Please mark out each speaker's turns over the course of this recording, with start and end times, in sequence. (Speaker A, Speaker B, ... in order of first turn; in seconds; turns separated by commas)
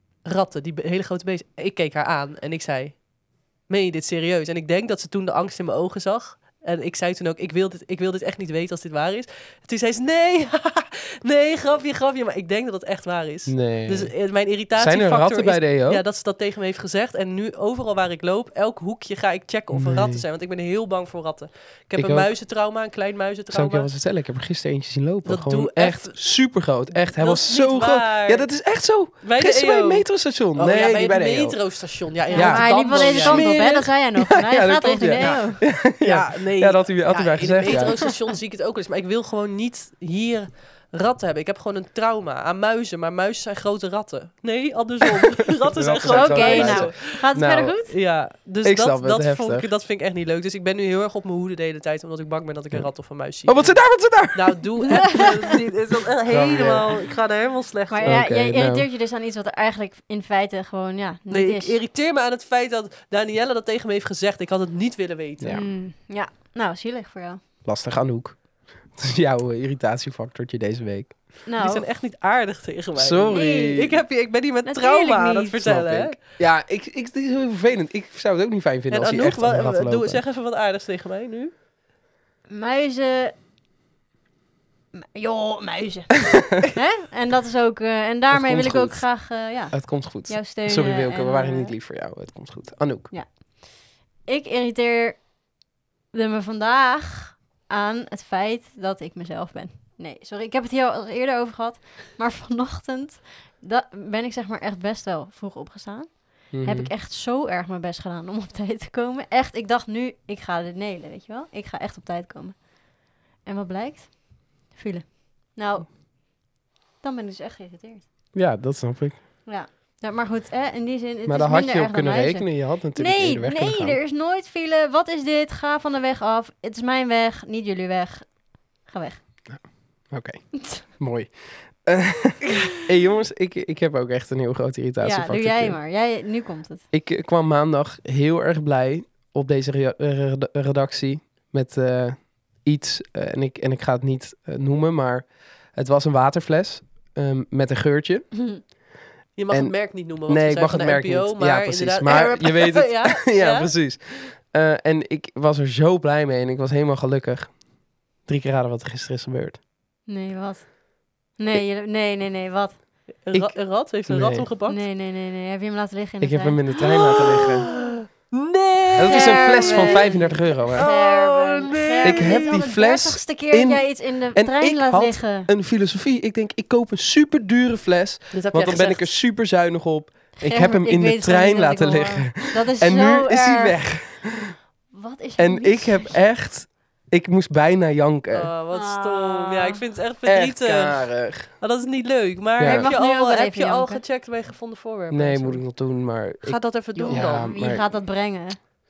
Speaker A: 0.2-23.9, Speaker B: 13.5-16.0, Speaker B: 19.7-20.2, Speaker B: 22.0-22.3, Speaker B: 23.5-38.0, Speaker A: 25.2-28.6, Speaker A: 29.2-33.9, Speaker C: 32.3-35.6, Speaker A: 35.1-47.2, Speaker C: 37.7-38.0, Speaker B: 45.7-47.8, Speaker C: 46.0-47.9, Speaker A: 47.9-58.2, Speaker B: 48.6-49.7, Speaker B: 52.7-54.6, Speaker B: 56.3-57.0, Speaker C: 57.9-61.8, Speaker B: 58.0-58.9, Speaker A: 61.3-65.6, Speaker B: 65.4-65.7, Speaker C: 65.5-67.4, Speaker B: 67.6-71.4, Speaker C: 71.5-71.9, Speaker A: 71.6-76.2, Speaker B: 73.0-74.0, Speaker C: 73.3-73.8, Speaker C: 74.7-75.6, Speaker B: 75.6-80.2, Speaker A: 78.9-81.5, Speaker C: 82.5-83.3, Speaker C: 84.9-91.8, Speaker B: 88.3-93.1, Speaker C: 93.1-95.5, Speaker C: 96.1-118.0, Speaker B: 106.5-106.9, Speaker B: 118.3-119.2, Speaker C: 119.5-129.2, Speaker B: 121.3-124.0, Speaker B: 129.5-135.8, Speaker C: 135.0-136.8, Speaker B: 136.9-148.8, Speaker C: 148.4-148.6, Speaker A: 149.4-153.7, Speaker B: 149.5-159.6, Speaker C: 160.1-162.8, Speaker A: 163.2-164.8, Speaker B: 163.3-164.5, Speaker C: 164.7-166.6, Speaker B: 166.2-167.7, Speaker A: 166.8-167.2, Speaker A: 168.3-172.6, Speaker B: 169.0-170.9, Speaker C: 169.1-175.5, Speaker B: 172.0-184.5, Speaker A: 178.3-179.1, Speaker C: 180.4-183.9, Speaker C: 184.9-186.2, Speaker B: 185.4-188.5, Speaker A: 188.3-195.8, Speaker C: 188.7-189.8, Speaker B: 190.2-191.6, Speaker B: 192.6-192.9, Speaker C: 192.6-194.0, Speaker B: 195.1-197.9, Speaker A: 196.4-197.6, Speaker C: 197.0-198.6